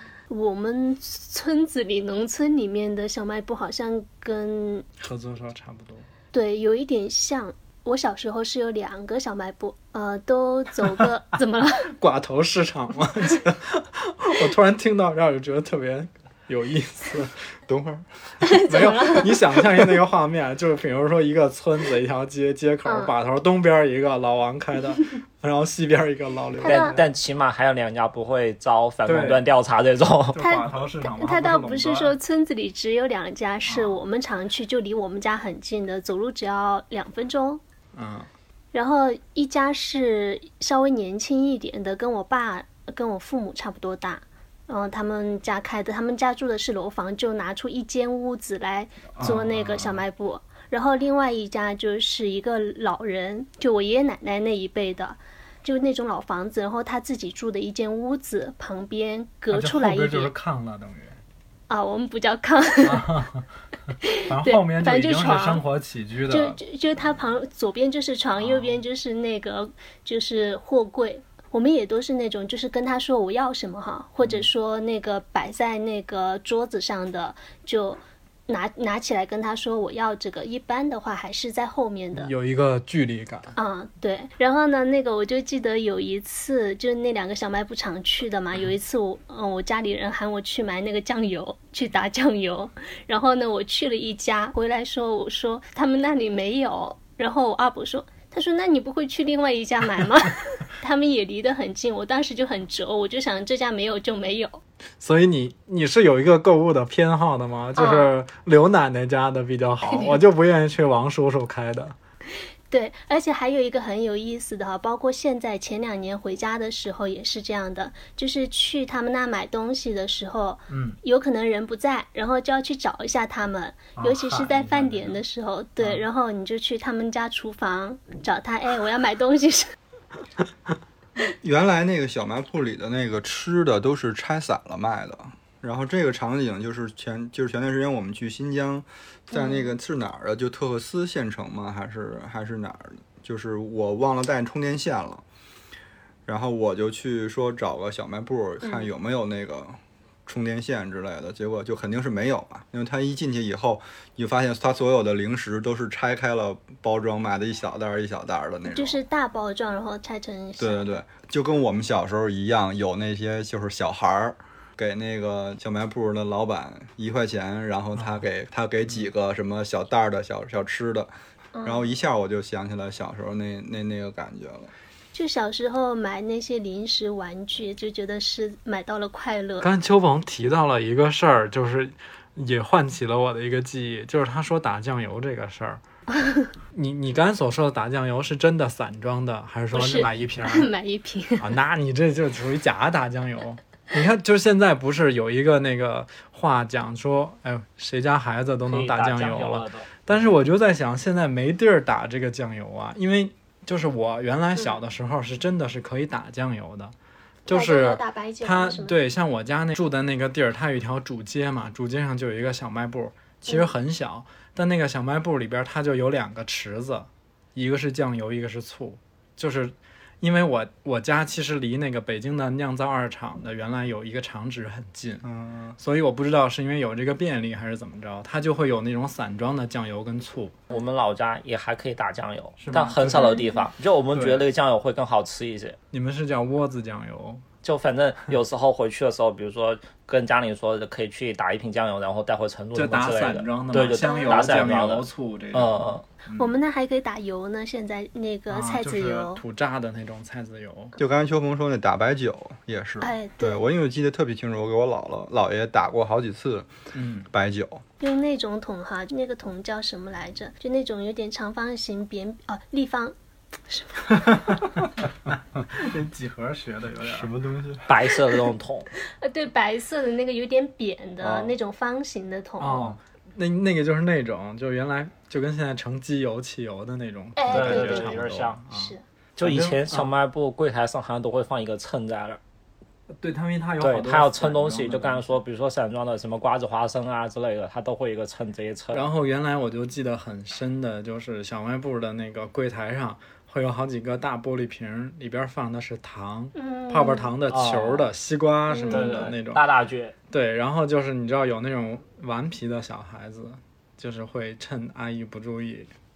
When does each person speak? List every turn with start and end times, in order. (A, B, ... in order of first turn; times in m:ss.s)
0:00.3-0:04.9 A
0:05.0-0:06.1 B
0:06.3-0:11.9 A
0:11.9-0:17.5 B
0:17.7-0:18.0 C
0:18.4-0:19.4 A
0:18.4-0:27.0 B
0:22.8-0:23.2 A
0:26.6-0:27.0 A
0:26.6-0:30.4 D
0:29.0-0:29.4 B
0:30.3-0:32.2 B
0:30.4-0:37.6 A
0:33.6-0:34.0 B
0:38.0-0:38.3 B
0:38.7-1:00.3 A
0:49.2-0:50.0 B
0:59.5-1:01.2 B
1:01.7-1:03.1 A
1:02.8-1:06.6 B
1:04.0-1:05.6 A
1:06.3-1:22.3 A
1:08.4-1:08.8 B
1:14.2-1:14.5 B
1:22.1-1:23.6 B
1:23.6-1:44.6 A
1:45.0-1:52.0 B
1:47.8-1:48.1 A
1:49.9-1:50.2 A
1:52.7-2:09.7 A
2:00.7-2:01.0 B
2:04.0-2:05.2 B
2:11.4-2:25.2 C
2:19.3-2:19.8 A
2:26.3-2:39.0 C
2:28.6-2:28.9 A
2:38.7-2:40.9 A
2:40.6-2:51.1 C
2:51.6-2:51.9 A
2:51.6-2:54.7 C
2:55.1-2:59.7 A
2:59.6-3:05.8 B
3:06.2-3:06.5 A
3:06.7-3:10.7 B
3:09.7-3:11.5 A
3:11.4-3:26.9 B
3:18.7-3:19.9 D
3:27.5-3:45.2 B
3:27.5-3:29.0 A
3:45.2-3:45.8 C
3:45.8-3:50.6 B
3:50.7-3:55.8 D
3:52.6-3:53.4 B
3:53.1-3:53.6 A
3:54.1-3:54.4 B
3:55.9-3:57.4 B
3:57.6-4:06.0 D
4:02.7-4:06.5 B
4:04.0-4:04.7 A
4:06.4-4:09.4 A
4:08.5-4:11.0 B
4:11.0-4:16.7 C
4:13.0-4:13.6 A
4:16.9-4:17.3 B
4:17.3-4:17.8 C
4:18.0-4:23.2 A
4:23.7-4:24.6 A
4:24.3-4:24.6 B
4:25.6-4:27.3 B
4:27.0-4:27.9 C
4:27.9-4:28.9 D
4:29.1-4:33.0 A
4:32.6-4:40.1 B
4:37.4-4:39.0 A
4:37.5-4:38.6 D
4:39.4-4:42.4 D
4:43.2-4:45.3 B
4:43.8-4:49.1 D
4:48.9-4:59.6 B
4:56.6-4:57.3 A
4:57.5-4:58.1 D
4:58.7-4:59.3 A
4:58.9-5:00.2 D
5:00.3-5:05.9 B